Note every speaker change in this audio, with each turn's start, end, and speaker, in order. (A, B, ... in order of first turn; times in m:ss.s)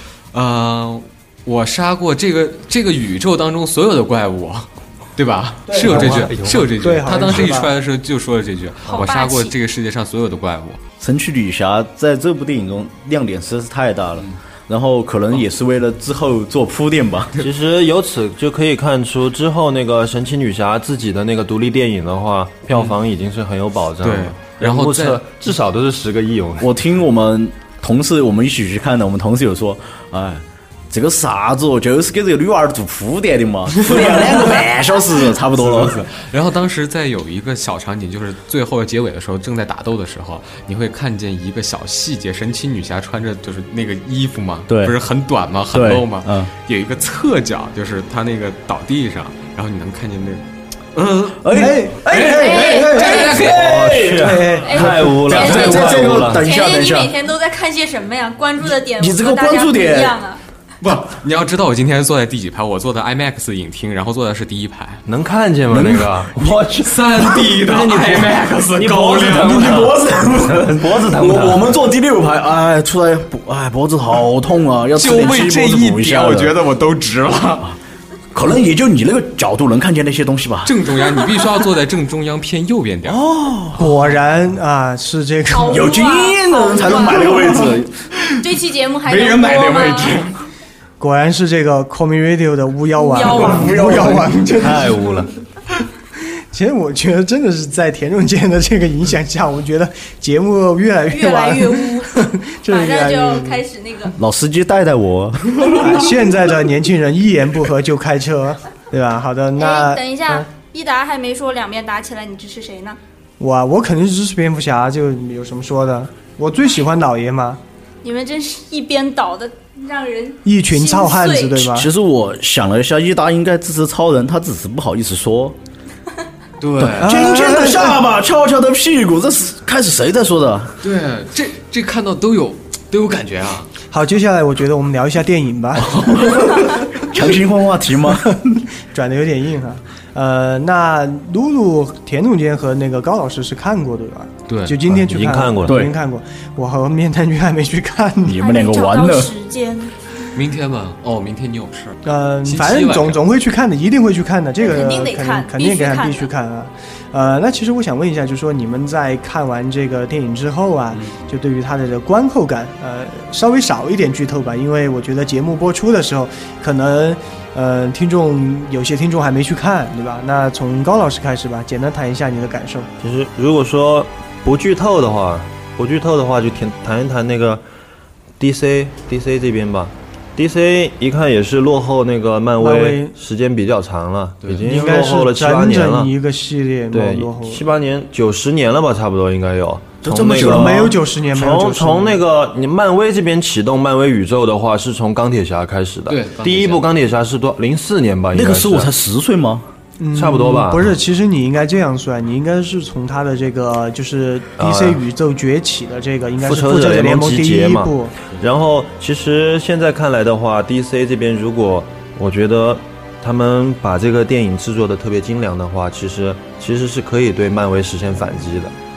0:00.3-0:10.8 A
0:05.7-0:07.7 B
0:06.0-0:06.3 C
0:08.9-0:09.5 D
0:11.0-0:17.3 C
0:17.4-0:26.7 E
0:24.0-0:25.3 A
0:26.6-0:36.0 C
0:33.7-0:34.7 A
0:35.6-0:53.8 A
0:44.7-0:45.0 C
0:45.7-0:46.5 C
0:51.4-0:57.1 C
0:51.5-0:53.5 B
0:52.2-0:53.3 D
0:53.2-0:56.4 E
0:54.2-0:55.5 B
0:54.6-1:00.4 D
0:58.7-1:00.2 C
1:00.8-1:05.0 A
1:05.1-1:06.6 E
1:05.7-1:16.6 C
1:06.7-1:10.0 A
1:09.2-1:09.9 E
1:10.5-1:11.7 E
1:15.0-1:17.7 A
1:18.3-1:21.3 C
1:20.6-1:23.2 A
1:23.0-1:24.0 C
1:23.8-1:25.9 B
1:25.5-1:27.6 D
1:25.6-1:27.9 C
1:28.4-1:30.3 D
1:29.1-1:30.4 A
1:31.0-1:35.1 B
1:33.0-1:33.8 D
1:33.3-1:34.9 C
1:34.5-1:35.3 E
1:36.5-1:43.6 B
1:41.1-1:44.2 D
1:44.2-1:46.1 C
1:45.6-1:50.5 B
1:49.6-1:53.0 D
1:53.4-1:57.6 B
1:58.0-2:01.6 D
2:00.4-2:01.9 B
2:01.6-2:05.6 C
2:06.6-2:07.3 A
2:06.8-2:10.8 C
2:07.0-2:08.0 B
2:10.8-2:13.7 A
2:13.9-2:16.9 B
2:15.8-2:18.4 C
2:18.1-2:28.4 B
2:24.5-2:24.8 A
2:24.9-2:25.8 E
2:25.6-2:26.0 C
2:28.2-2:29.3 C
2:28.3-2:29.9 D
2:30.3-2:33.2 A
2:32.0-2:52.9 B
2:34.6-2:36.3 D
2:40.9-2:41.2 A
2:53.0-2:57.6 E
2:58.4-3:06.1 E
3:02.6-3:03.1 B
3:04.7-3:07.6 B
3:06.9-3:18.9 E
3:10.0-3:12.2 B
3:10.3-3:10.7 C
3:16.1-3:16.8 A
3:18.3-3:19.6 C
3:20.0-3:28.1 B
3:20.1-3:20.9 E
3:24.6-3:25.0 E
3:26.4-3:38.7 E